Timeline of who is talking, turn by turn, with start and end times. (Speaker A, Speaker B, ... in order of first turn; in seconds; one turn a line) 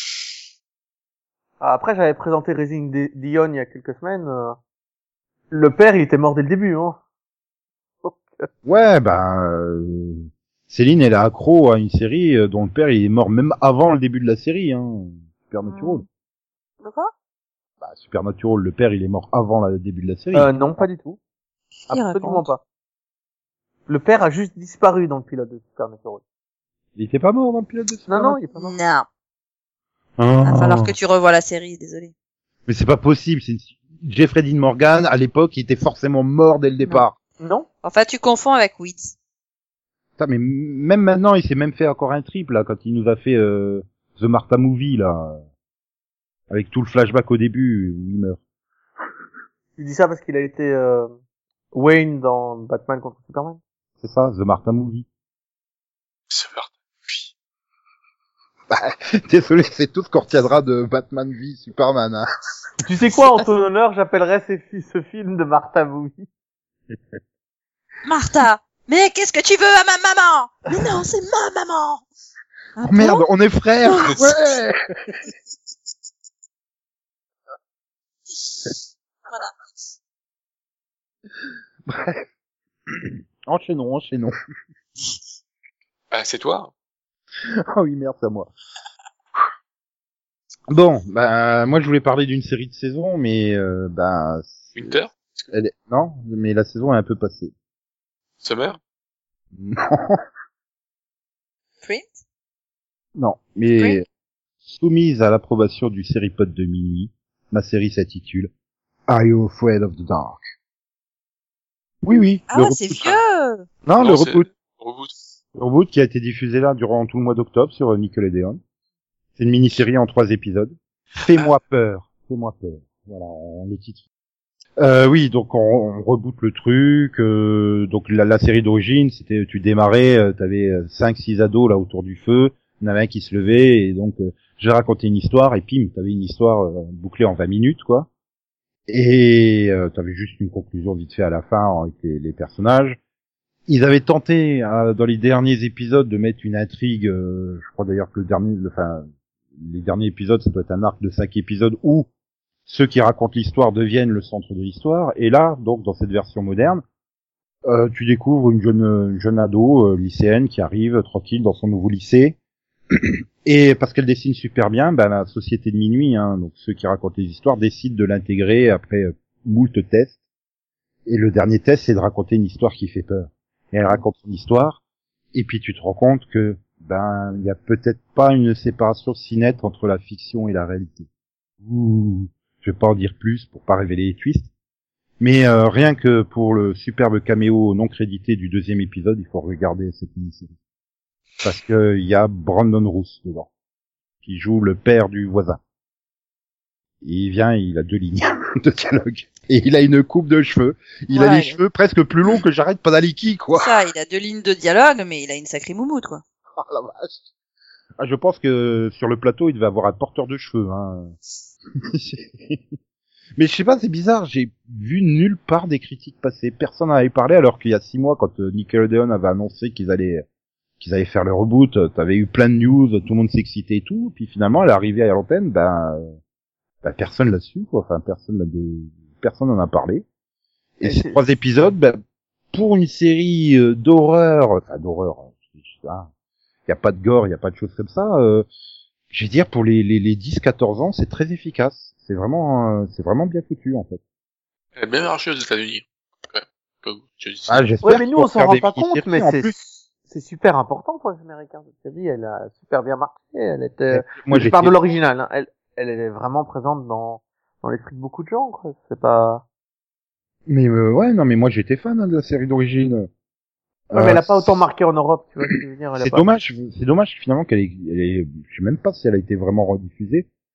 Speaker A: 1.6-4.6
Speaker A: 5.5-7.0
Speaker A: 8.0-8.5
Speaker B: 8.6-16.0
Speaker C: 15.6-16.0
Speaker C: 16.8-17.1
Speaker B: 17.8-20.9
Speaker A: 20.3-21.2
Speaker C: 21.9-22.5
Speaker A: 21.9-22.6
Speaker A: 23.9-26.2
Speaker B: 26.9-28.4
Speaker A: 28.1-28.7
Speaker C: 28.5-29.1
Speaker B: 30.2-30.9
Speaker C: 30.4-32.1
Speaker B: 32.6-37.1
Speaker A: 37.4-37.6
Speaker C: 37.8-39.1
Speaker B: 40.2-45.4
Speaker B: 46.5-48.4
Speaker A: 49.8-51.1
Speaker A: 51.7-53.6
Speaker B: 54.0-55.0
Speaker D: 56.3-57.3
Speaker B: 58.7-62.3
Speaker A: 62.8-66.3
Speaker C: 68.0-72.0
Speaker C: 72.8-73.2
Speaker B: 72.8-74.8
Speaker C: 73.8-74.4
Speaker B: 81.8-82.2
Speaker B: 82.9-84.3
Speaker D: 86.1-86.7
Speaker B: 87.7-88.5
Speaker B: 90.7-94.9
Speaker D: 94.7-95.5
Speaker B: 95.5-97.5
Speaker D: 98.4-98.8
Speaker B: 99.5-100.2
Speaker B: 103.2-104.0
Speaker B: 104.7-108.5
Speaker B: 109.1-110.4
Speaker B: 112.0-113.1
Speaker C: 112.5-113.7
Speaker B: 113.8-114.5
Speaker D: 114.0-115.1
Speaker B: 115.5-118.6
Speaker B: 119.4-124.0
Speaker B: 124.8-138.1
Speaker B: 138.9-143.0
Speaker B: 143.7-152.1
Speaker B: 152.7-156.8
Speaker B: 157.7-162.3
Speaker B: 162.9-170.2
Speaker B: 171.1-174.8
Speaker B: 175.3-181.1
Speaker B: 181.6-184.5
Speaker B: 185.2-190.5
Speaker B: 191.4-193.5
Speaker B: 194.2-195.6
Speaker B: 197.0-203.7
Speaker C: 201.1-201.6
Speaker C: 203.5-206.2
Speaker B: 206.6-207.2
Speaker B: 208.0-211.1
Speaker B: 211.8-212.6
Speaker B: 213.4-220.2
Speaker B: 220.8-226.1
Speaker B: 226.8-230.1
Speaker B: 230.8-232.0
Speaker A: 230.8-231.2
Speaker B: 232.5-236.1
Speaker B: 236.7-238.4
Speaker B: 239.1-244.0
Speaker D: 244.8-247.7
Speaker B: 247.5-249.6
Speaker A: 247.8-259.4
Speaker B: 253.9-254.8
Speaker B: 260.5-263.1
Speaker B: 263.9-264.6
Speaker A: 263.9-266.3
Speaker B: 266.0-270.3